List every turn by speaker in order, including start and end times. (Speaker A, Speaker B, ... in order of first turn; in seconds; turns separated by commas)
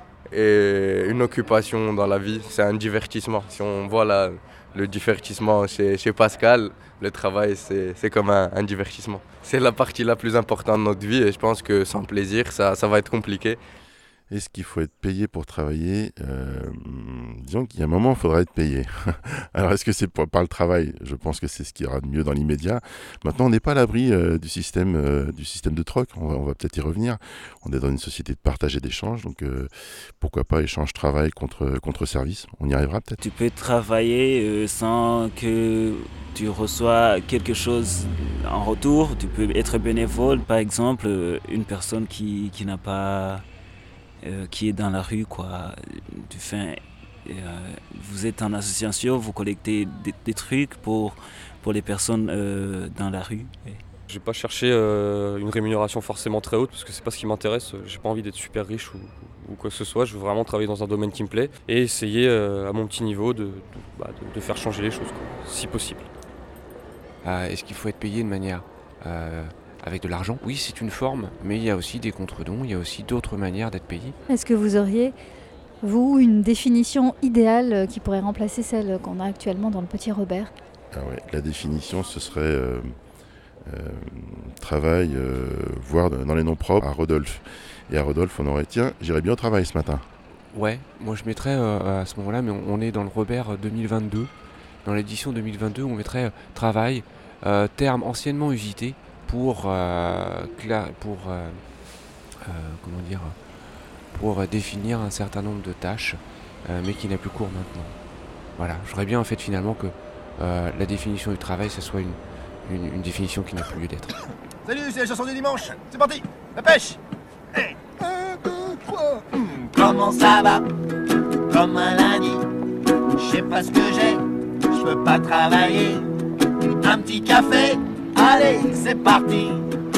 Speaker A: 0.3-13.6, Speaker B: 14.3-33.2, Speaker C: 33.2-43.5, Speaker C: 44.2-53.8, Speaker D: 54.1-66.1, Speaker E: 67.2-74.2, Speaker F: 74.3-75.2, Speaker F: 75.8-80.5, Speaker B: 80.9-83.0, Speaker B: 83.6-90.1, Speaker E: 90.5-94.3, Speaker E: 94.8-101.6, Speaker E: 102.4-103.4, Speaker E: 104.1-108.0, Speaker E: 108.6-114.1, Speaker G: 114.7-117.0, Speaker G: 119.4-120.7, Speaker G: 121.5-122.5, Speaker G: 123.2-126.1, Speaker G: 126.8-129.7